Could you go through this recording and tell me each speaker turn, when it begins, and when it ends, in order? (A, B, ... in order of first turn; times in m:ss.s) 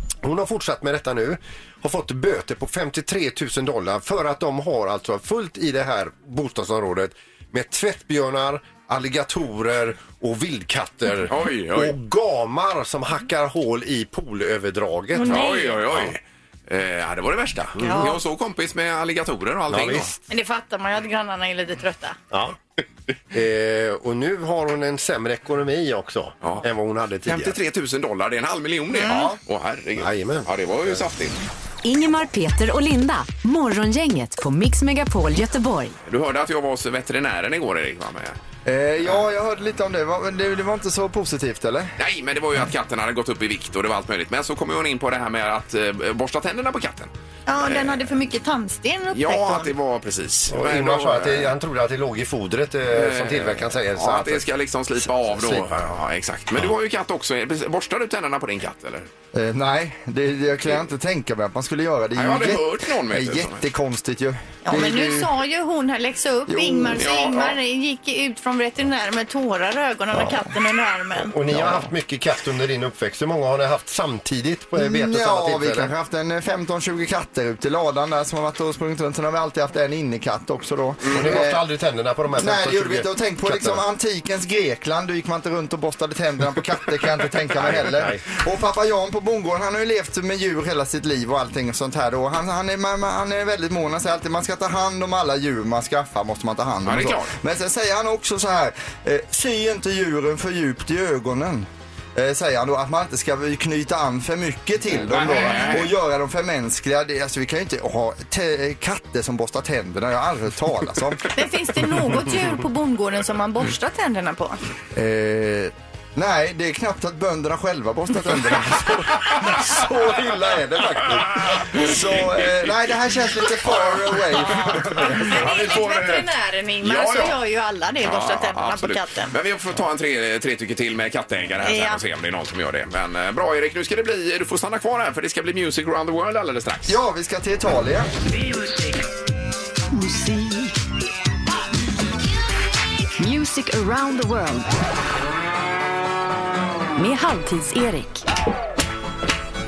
0:00.2-0:16.2 A
0:11.3-0:12.0 B
0:15.1-0:15.8 C
0:15.3-0:20.1 B
0:17.8-0:18.1 A
0:17.8-0:18.2 C
0:19.7-0:20.1 A
0:20.3-0:22.2 C
0:22.3-0:22.6 A
0:23.3-0:27.6 A
0:27.3-0:31.4 B
0:29.0-0:29.4 C
0:29.1-0:29.4 D
0:30.0-0:30.5 A
0:31.8-0:36.0 E
0:36.1-0:38.4 B
0:38.6-0:41.9 D
0:42.0-0:48.1 B
0:47.5-0:49.7 C
0:49.1-0:51.5 B
0:50.5-0:54.5 A
0:52.9-0:59.1 B
0:55.0-0:55.9 A
0:59.3-1:05.3 D
1:02.2-1:03.6 B
1:04.6-1:11.3 C
1:06.5-1:07.0 D
1:07.0-1:07.6 B
1:11.2-1:15.9 A
1:11.5-1:11.9 B
1:14.8-1:21.6 D
1:21.0-1:21.4 B
1:21.1-1:23.8 A
1:22.4-1:51.4 D
1:27.6-1:28.2 A
1:36.8-1:37.3 B
1:44.9-1:45.9 B
1:51.3-1:54.6 C
1:54.9-2:05.4 D
2:01.2-2:02.9 B
2:03.6-2:06.3 B
2:04.9-2:09.4 C
2:06.8-2:07.4 B
2:08.0-2:17.0 B
2:11.6-2:12.0 C
2:16.9-2:18.1 D
2:23.2-2:24.6 E
2:27.0-2:27.8 E